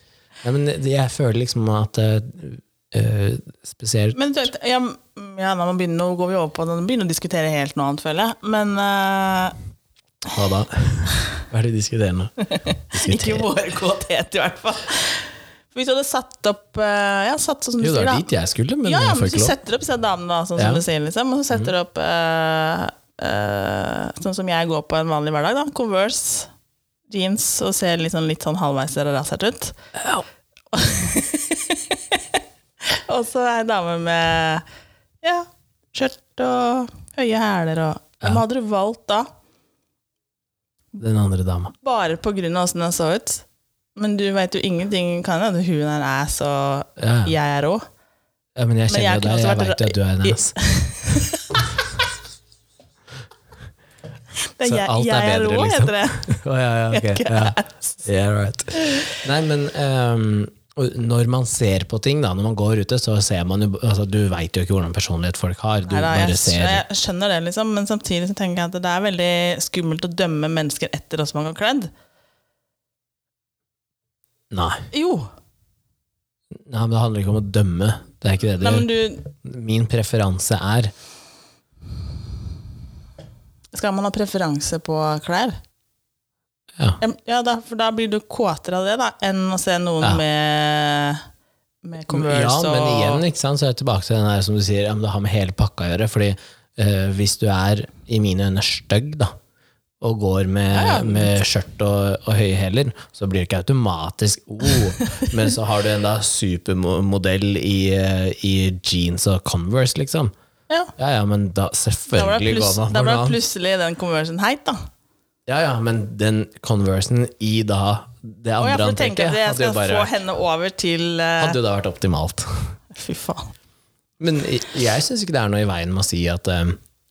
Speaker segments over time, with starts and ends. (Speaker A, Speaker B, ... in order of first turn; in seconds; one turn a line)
Speaker A: 0.4-4.2
Speaker B: 4.1-9.6
Speaker A: 10.3-12.3
Speaker B: 12.5-18.3
Speaker A: 12.9-13.5
Speaker A: 17.8-19.6
Speaker B: 18.8-26.5
Speaker A: 20.6-20.8
Speaker B: 27.1-29.8
Speaker B: 30.7-34.6
Speaker B: 35.2-39.3
Speaker A: 41.0-41.7
Speaker B: 41.8-43.4
Speaker B: 44.0-47.8
Speaker A: 47.0-47.3
Speaker A: 48.5-50.5
Speaker B: 48.9-51.5
Speaker B: 54.6-56.3
Speaker A: 54.6-66.8
Speaker B: 56.9-58.0
Speaker B: 58.8-59.2
Speaker B: 65.9-71.9
Speaker A: 74.5-74.8
Speaker B: 74.9-75.3
Speaker A: 76.5-80.9
Speaker B: 78.6-79.3
Speaker B: 83.7-85.6
Speaker B: 87.0-91.2
Speaker B: 91.8-93.2
Speaker A: 92.1-99.3
Speaker A: 100.0-110.3
Speaker B: 100.7-101.4
Speaker B: 105.0-105.3
Speaker A: 111.0-113.4
Speaker B: 112.1-114.8
Speaker A: 115.5-120.1
Speaker B: 118.6-121.6
Speaker A: 121.4-122.7
Speaker B: 122.9-123.5
Speaker A: 124.2-126.8